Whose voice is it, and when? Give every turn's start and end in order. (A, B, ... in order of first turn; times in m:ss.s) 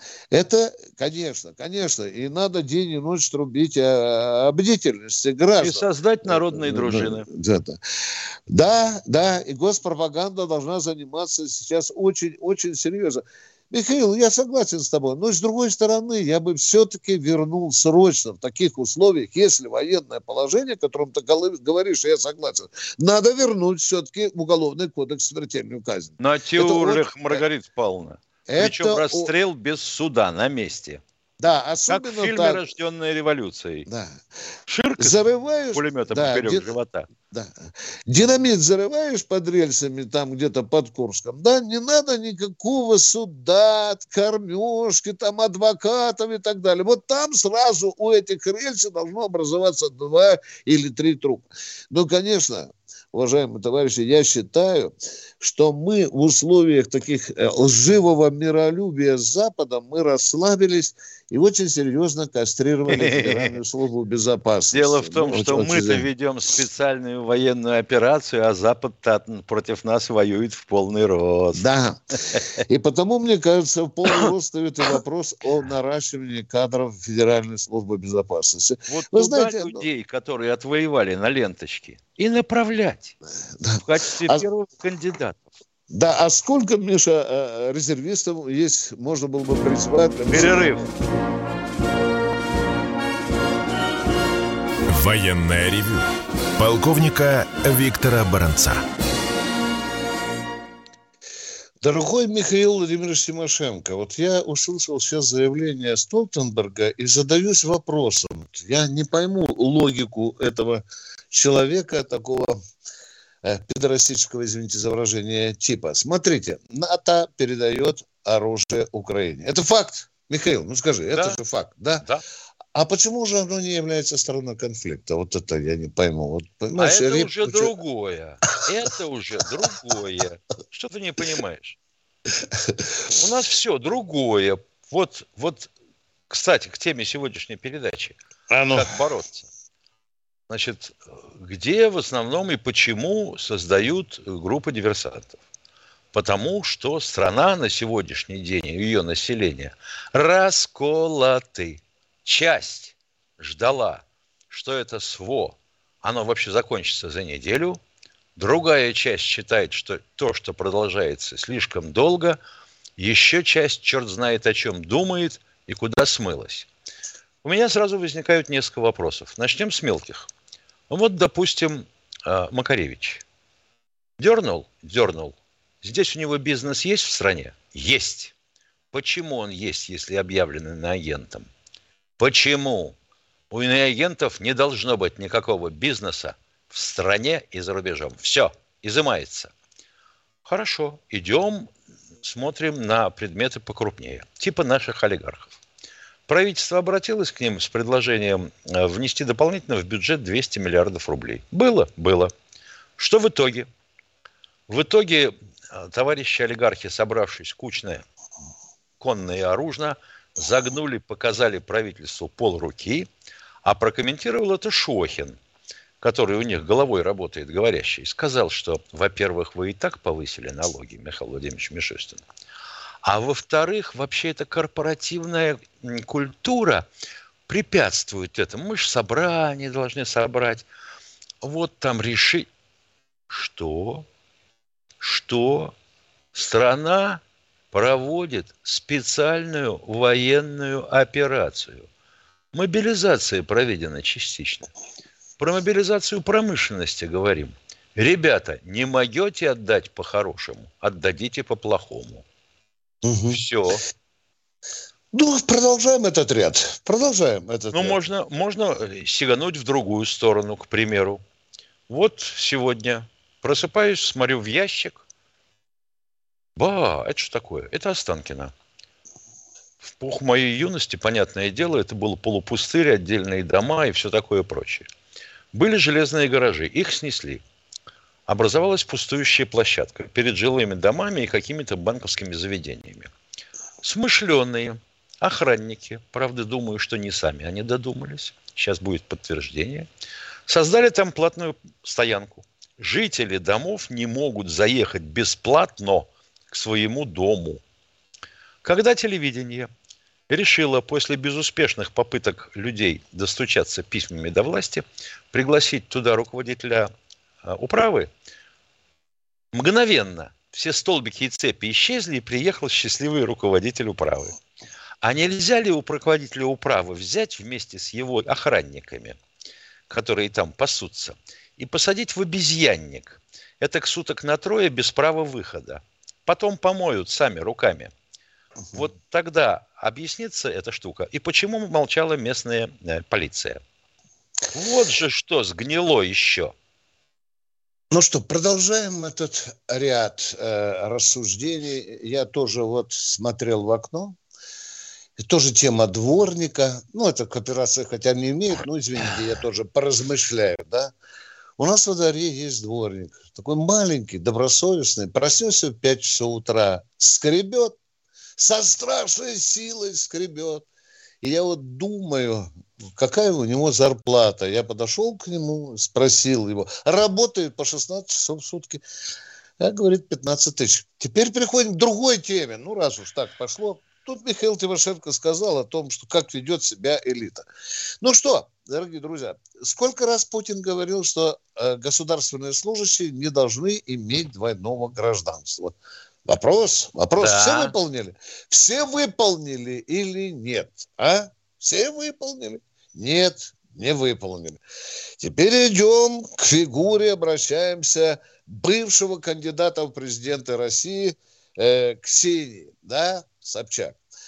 0:00.3-0:07.8 A
0:05.6-0:07.2 B
0:08.5-0:27.4 A
0:26.2-0:31.0 B
0:28.5-0:29.3 A
0:31.4-0:32.6 A
0:31.9-0:33.9 B
0:33.8-0:34.2 A
0:34.7-0:35.2 B
0:35.0-0:36.7 A
0:35.7-0:37.1 B
0:37.3-1:06.1 A
1:02.9-1:03.6 B
1:04.7-1:11.6 B
1:11.5-1:12.0 A
1:12.6-1:19.8 A
1:18.9-1:23.2 B
1:23.5-1:24.4 A
1:23.8-1:25.4 B
1:25.9-1:30.9 A
1:30.3-1:30.8 B
1:34.9-1:38.8 C
1:41.8-1:52.6 A
1:53.4-2:02.0 A
2:01.1-2:01.4 B
2:02.7-2:07.7 A
2:06.8-2:11.8 B
2:12.5-2:12.9 A
2:13.2-2:15.7 B
2:16.3-2:18.2 B
2:18.5-2:19.0 A
2:18.7-2:19.5 B
2:20.5-2:25.4 B
2:26.1-2:37.8 B
2:38.4-2:42.4 B
2:43.0-2:46.7 B
2:47.4-2:50.3 B
2:50.9-2:53.2 B
2:54.2-2:58.3 B
2:58.9-3:01.5 B
3:02.2-3:02.9 B
3:03.5-3:09.5 B
3:10.4-3:11.7 B
3:12.2-3:15.6 B
3:16.3-3:22.3 B
3:23.0-3:23.7 B
3:24.7-3:28.0 B
3:29.0-3:33.1 B
3:33.6-3:35.4 B
3:36.0-3:42.2 B
3:43.0-3:46.9 B
3:47.5-3:50.6 B
3:51.4-3:52.5 B
3:53.3-3:54.0 B
3:55.0-3:55.7 B
3:56.3-3:57.2 B
3:57.7-4:01.9 B
4:02.5-4:04.7 B
4:05.4-4:12.2 B
4:13.0-4:13.4 A
4:13.3-4:13.8 B
4:15.1-4:18.0 A
4:17.7-4:21.2 B
4:21.9-4:25.0 B
4:26.6-4:28.5 B
4:29.8-4:34.9 B
4:35.5-4:37.4 B
4:38.3-4:43.1 B
4:43.8-4:49.9 B
4:50.5-4:57.6 B
4:58.6-4:59.7 B
5:00.3-5:06.9 B
5:07.4-5:08.1 B
5:09.5-5:14.4 B
5:15.0-5:19.2 B
5:19.9-5:27.9 B
5:28.7-5:33.6 B
5:34.5-5:36.5 B
5:37.9-5:44.2 A
5:45.2-5:50.9 A
5:51.6-5:57.8 A
5:58.4-6:00.6 A
6:01.2-6:08.8 A
6:09.6-6:17.5 A
6:18.0-6:25.7 A
6:26.3-6:34.6 A
6:27.2-6:27.7 B
6:35.2-6:44.0 A